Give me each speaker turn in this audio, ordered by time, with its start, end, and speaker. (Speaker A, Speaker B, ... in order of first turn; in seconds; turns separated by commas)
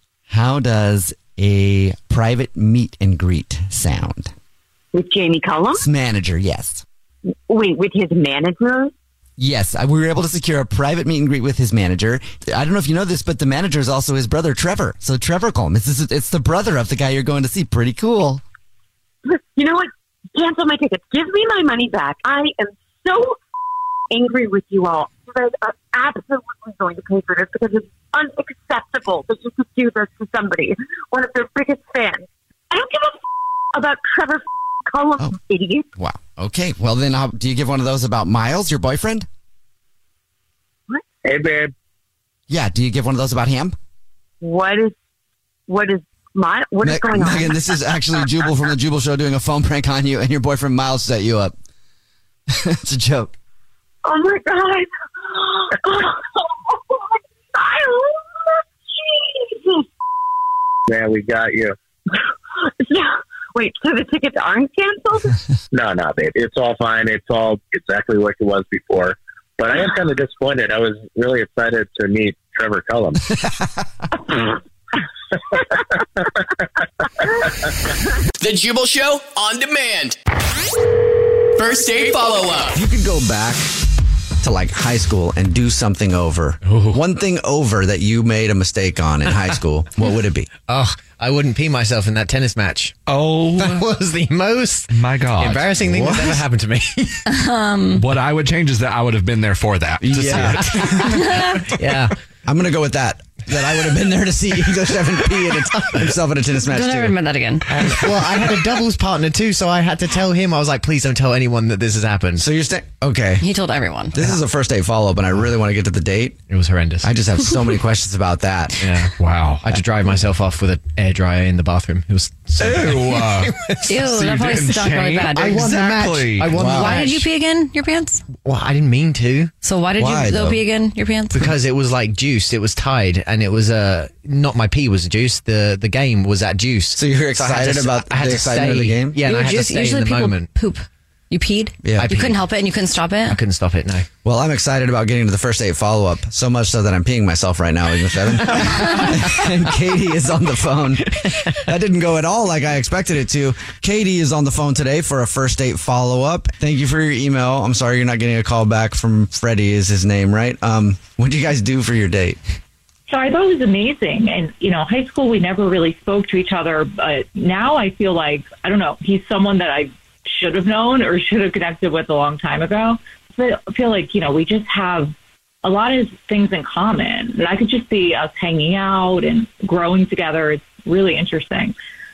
Speaker A: 0.3-4.3, Speaker B: 4.9-5.8, Speaker A: 5.8-6.8, Speaker B: 7.5-8.9, Speaker A: 9.4-18.4, Speaker B: 19.2-23.4, Speaker B: 24.1-33.2, Speaker B: 33.7-35.9, Speaker A: 36.0-39.3, Speaker C: 41.2-41.7, Speaker A: 42.5-43.7, Speaker B: 44.4-44.9, Speaker B: 45.7-47.7, Speaker A: 46.8-51.5, Speaker A: 52.5-53.3, Speaker B: 54.0-59.9, Speaker C: 60.9-61.7, Speaker B: 62.6-65.4, Speaker C: 65.7-73.2, Speaker A: 73.4-73.7, Speaker D: 78.4-80.2, Speaker D: 81.6-82.8, Speaker A: 82.7-83.7, Speaker A: 84.4-90.5, Speaker E: 86.7-87.0, Speaker E: 90.7-93.0, Speaker F: 93.1-93.8, Speaker E: 93.6-97.2, Speaker F: 94.9-96.1, Speaker A: 95.9-96.4, Speaker G: 97.2-98.0, Speaker F: 97.9-101.1, Speaker E: 100.0-102.1, Speaker A: 100.1-100.9, Speaker G: 101.0-101.6, Speaker A: 102.5-107.1, Speaker E: 105.7-106.0, Speaker G: 106.7-107.6, Speaker E: 107.7-112.4, Speaker A: 112.4-113.4, Speaker G: 113.4-114.1, Speaker A: 114.1-116.4, Speaker E: 116.5-117.1, Speaker A: 117.0-118.8, Speaker E: 118.8-124.0, Speaker F: 119.2-119.7, Speaker F: 122.6-126.6, Speaker G: 123.8-125.7, Speaker E: 125.4-127.3, Speaker A: 126.5-127.0, Speaker G: 126.6-128.2, Speaker E: 128.4-129.5, Speaker G: 129.6-131.4, Speaker A: 130.0-130.6, Speaker E: 131.3-140.5, Speaker A: 137.0-139.2, Speaker G: 139.2-143.4, Speaker A: 141.8-142.1, Speaker E: 141.9-142.4, Speaker E: 143.3-144.1, Speaker A: 144.2-162.4, Speaker H: 163.1-181.7